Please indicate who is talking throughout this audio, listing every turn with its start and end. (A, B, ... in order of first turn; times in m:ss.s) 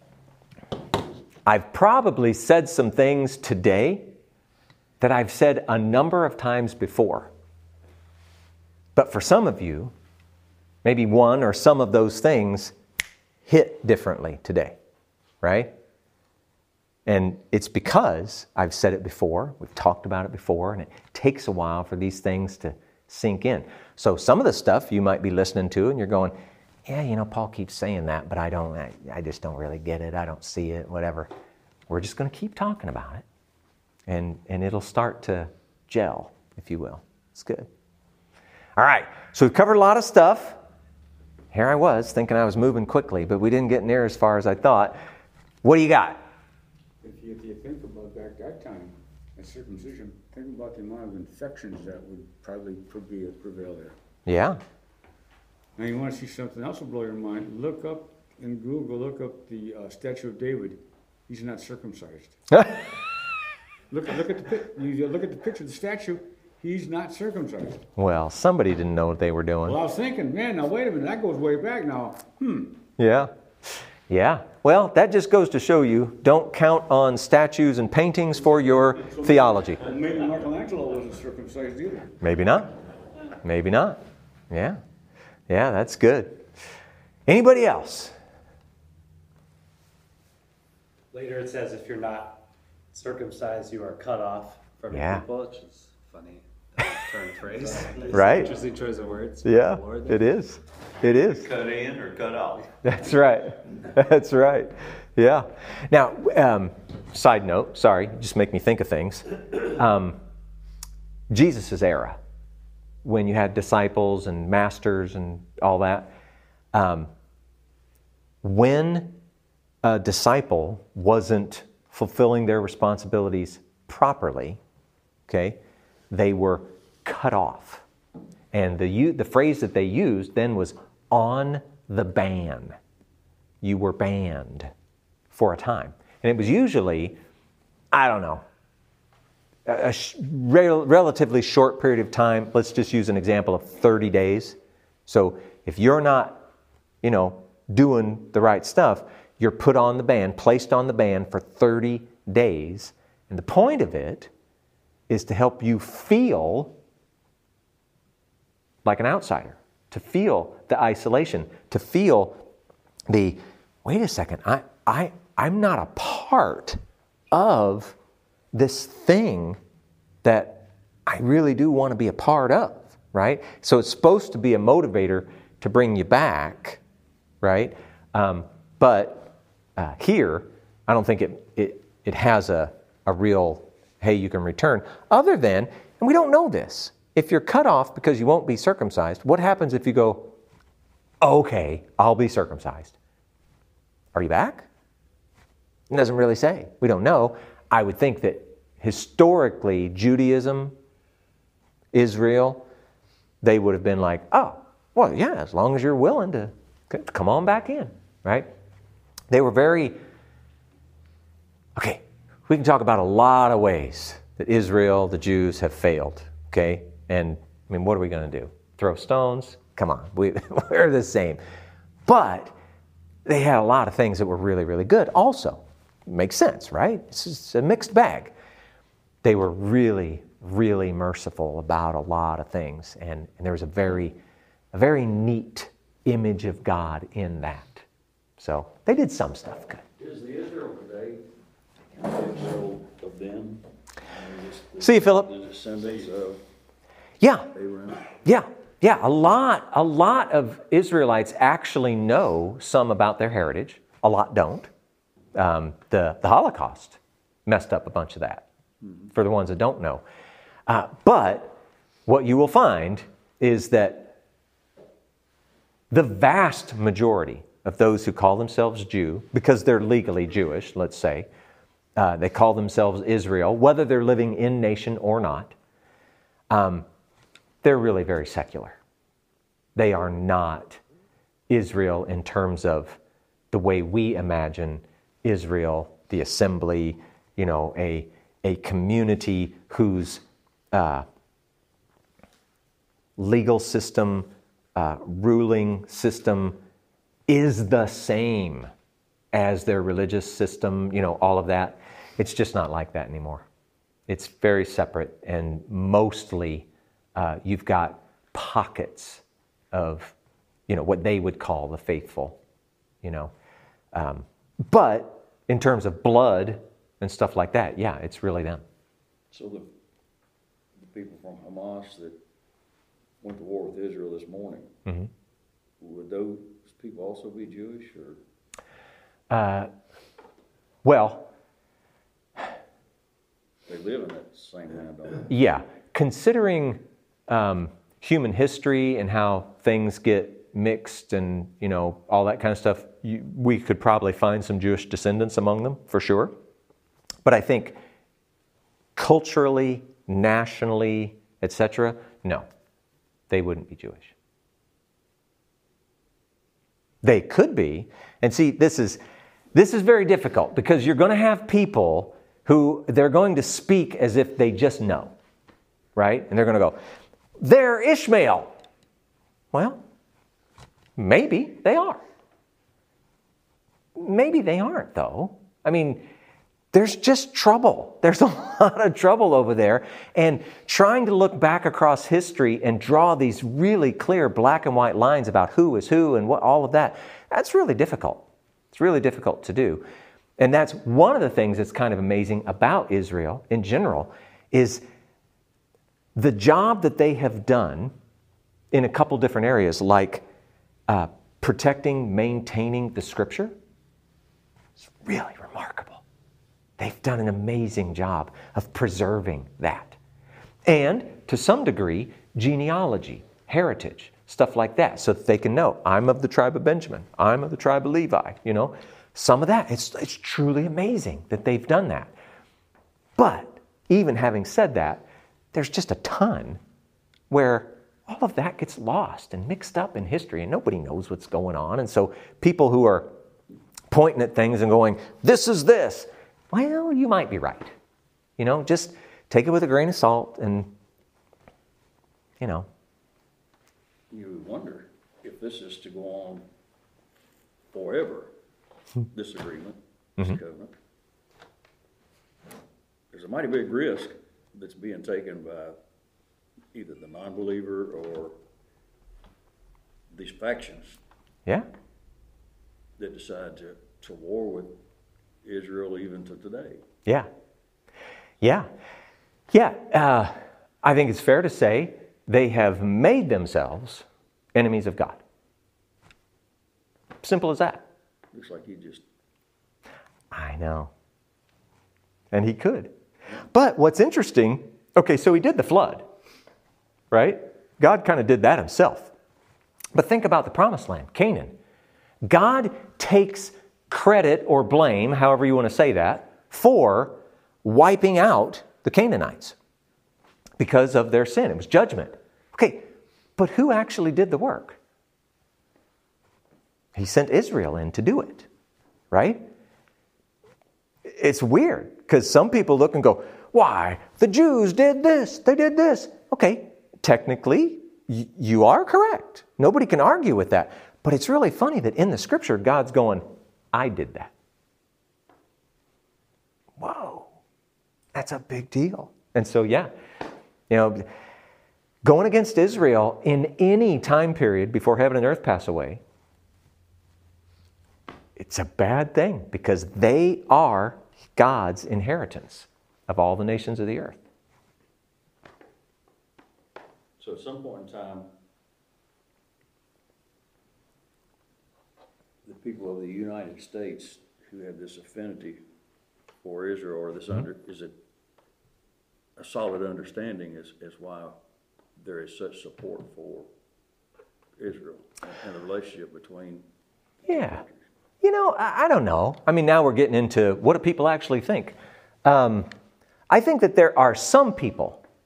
0:01.4-0:04.1 A
0:05.0-0:07.3 A
0:09.0-0:09.9 A
0:10.8-0:12.7 A
0:13.4-0:14.8 A
0:15.4-0:15.7 A
0:17.0-0:26.4 A
0:26.9-0:31.3 A
0:31.9-0:33.2 A
0:34.1-0:37.7 A
0:38.8-0:40.6 A
0:41.5-0:45.0 A
0:45.6-0:46.2 A
0:47.0-0:54.0 B
0:54.3-0:54.6 A
0:55.8-1:02.4 B
1:03.9-1:07.8 B
1:08.0-1:09.8 A
1:09.6-1:12.8 B
1:13.0-1:19.8 A
1:18.9-1:22.2 B
1:22.2-1:22.7 A
1:23.4-1:24.8 A
1:25.5-1:26.4 A
1:27.3-1:28.1 A
1:31.1-1:40.2 C
1:34.9-1:35.2 A
1:37.6-1:38.5 D
1:38.1-1:38.5 A
1:39.4-1:41.5 A
1:41.1-1:42.7 D
1:42.8-1:50.2 A
1:51.3-1:52.2 A
1:53.0-1:56.1 A
1:56.7-1:57.1 A
1:58.4-1:59.2 A
1:59.8-2:04.6 A
2:05.3-2:05.6 A
2:06.1-2:07.8 A
2:08.5-2:12.7 A
2:13.6-2:14.7 A
2:15.3-2:17.2 A
2:17.9-2:18.4 A
2:19.7-2:26.4 A
2:27.0-2:34.3 A
2:35.1-2:36.7 A
2:38.8-2:42.4 A
2:43.1-2:46.8 A
2:47.3-2:48.0 A
2:48.5-2:49.6 A
2:50.2-2:56.8 A
2:57.4-3:10.3 A
3:11.2-3:13.0 A
3:14.1-3:14.7 A
3:15.9-3:20.7 A
3:21.9-3:22.6 A
3:23.4-3:28.5 A
3:29.3-3:30.0 A
3:31.8-3:41.4 A
3:42.0-3:42.6 A
3:43.3-3:48.3 A
3:49.2-3:54.2 A
3:54.7-3:57.8 A
3:58.4-3:59.8 A
4:00.0-4:01.3 E
4:01.9-4:06.4 E
4:04.8-4:05.3 A
4:07.2-4:07.5 A
4:07.5-4:08.1 E
4:08.2-4:14.7 A
4:15.4-4:18.4 A
4:19.1-4:20.0 A
4:20.7-4:24.1 A
4:25.9-4:31.3 A
4:32.0-4:35.5 A
4:36.5-4:36.9 A
4:37.6-4:38.8 A
4:39.8-4:40.8 A
4:41.5-4:43.0 A
4:43.5-4:51.0 A
4:53.2-4:56.6 A
4:57.3-4:58.7 A
4:59.3-5:03.4 A
5:04.1-5:09.2 A
5:09.7-5:10.1 A
5:10.7-5:12.4 A
5:13.0-5:13.3 A
5:13.9-5:18.6 A
5:19.3-5:19.7 E
5:20.8-5:22.2 E
5:23.2-5:24.7 E
5:25.8-5:28.2 E
5:29.3-5:29.7 A
5:30.8-5:31.3 A
5:33.7-5:35.3 E
5:35.3-5:46.3 A
5:47.2-5:47.8 A
5:49.0-5:52.4 A
5:53.3-5:54.1 A
5:57.0-5:59.0 A
5:59.5-6:05.1 A
6:06.0-6:06.8 A
6:07.4-6:08.5 A
6:09.5-6:09.8 A
6:11.0-6:12.0 A
6:14.0-6:16.0 A
6:16.7-6:29.8 A
6:30.4-6:34.8 A
6:36.1-6:37.9 A
6:38.7-6:40.2 A
6:40.9-6:43.6 A
6:44.8-6:46.0 A
6:46.8-6:50.0 A
6:50.7-7:02.1 A
7:03.2-7:06.6 A
7:07.3-7:13.1 A
7:13.9-7:17.7 A
7:18.4-7:20.7 A
7:22.4-7:22.7 A
7:24.1-7:26.4 E
7:27.7-7:28.3 E
7:29.1-7:30.7 E
7:33.1-7:35.8 E
7:36.7-7:38.4 E
7:40.1-7:41.0 E
7:43.0-7:44.8 E
7:45.4-7:46.8 E
7:48.4-7:48.7 A
7:49.5-7:55.2 A
7:57.2-7:57.8 A
7:58.3-7:59.0 E
8:00.3-8:00.9 A
8:02.3-8:02.9 A
8:03.5-8:06.0 A
8:07.1-8:09.1 A
8:10.0-8:11.6 A
8:12.3-8:19.6 A
8:20.6-8:24.8 A
8:27.0-8:28.5 A
8:29.1-8:29.4 A
8:31.0-8:44.3 A
8:46.8-8:47.3 A
8:48.1-8:49.9 A
8:50.7-8:51.0 A
8:52.0-8:56.0 A
8:58.4-9:04.2 A
9:07.2-9:08.3 E
9:12.4-9:15.6 E
9:16.4-9:18.0 E
9:19.4-9:21.4 E
9:22.0-9:23.5 E
9:24.6-9:26.7 E
9:27.2-9:27.9 E
9:27.3-9:27.6 A
9:28.2-9:32.7 A
9:33.3-9:35.0 A